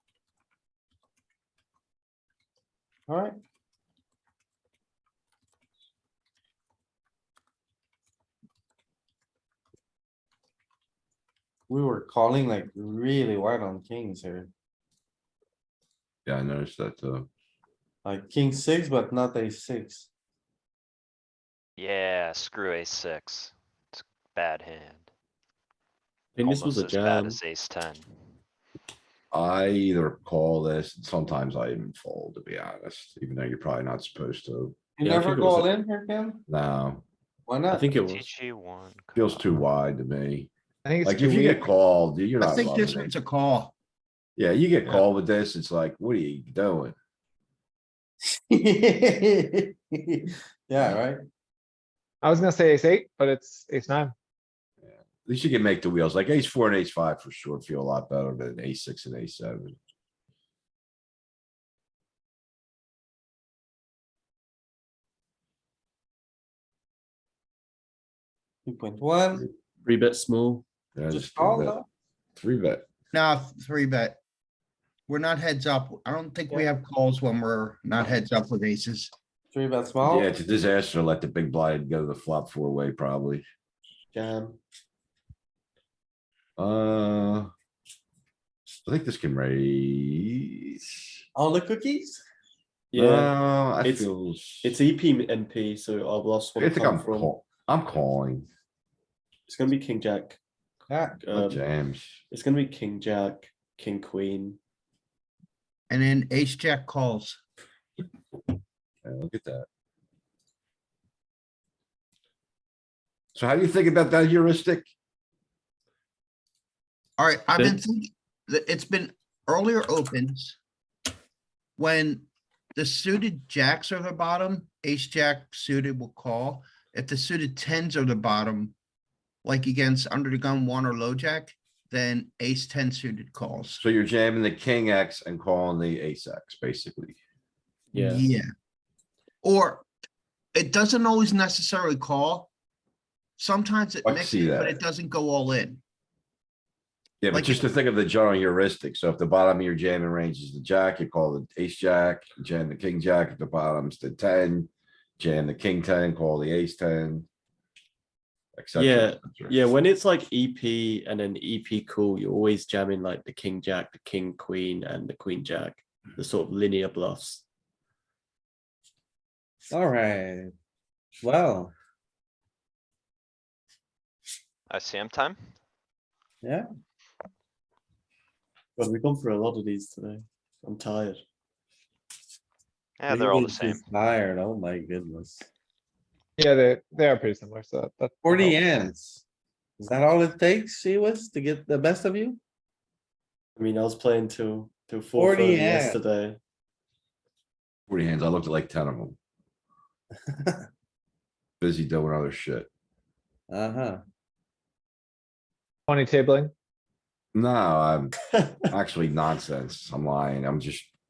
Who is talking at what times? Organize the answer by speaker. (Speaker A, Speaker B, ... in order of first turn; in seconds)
Speaker A: 3.1-3.4, 11.7-14.5, 18.0-20.1, 35.0-36.4, 37.5-37.8, 48.2-51.2, 68.7-69.5, 71.1-71.9, 79.5-80.3, 91.3-92.2, 100.9-101.2, 169.7-170.5, 171.2-171.7, 176.4-176.7, 183.1-185.4, 188.2-189.2, 189.8-192.4, 195.1-196.0, 200.3-200.7, 203.5-204.0
Speaker B: 16.2-17.3, 29.3-35.4, 36.5-37.0, 39.1-40.5, 41.0-43.1, 44.4-47.0, 55.2-59.8, 71.0-71.8, 72.3-72.8, 80.0-83.4, 86.6-87.5, 88.8-90.9, 92.9-94.7, 96.6-98.5, 101.3-102.2, 109.0-109.7, 113.3-114.9, 133.8-137.2, 144.0-144.8, 147.2-157.3, 158.5-159.6, 197.9-199.2, 201.6-202.7, 207.3-208.1, 208.7-210.9
Speaker C: 21.8-25.1, 26.4-28.1, 37.9-39.5, 174.7-175.4, 183.0-183.8
Speaker D: 26.4-27.4, 35.3-35.6, 37.7-38.3, 69.4-70.6, 84.1-84.6, 92.9-94.1, 94.6-97.3, 99.5-100.4, 101.2-101.6, 102.3-104.6, 137.9-138.2, 158.7-167.4, 178.8-181.2, 193.6-196.4, 208.3-208.7
Speaker E: 40.9-41.6, 52.2-54.1, 186.4-188.6, 205.9-206.5
Speaker F: 42.4-43.7, 73.1-74.2, 75.1-79.1, 105.9-107.4, 117.2-120.6, 121.8-128.7, 129.4-133.8, 137.9-138.5, 139.4-139.9, 140.5-142.5, 143.4-145.8, 147.3-147.7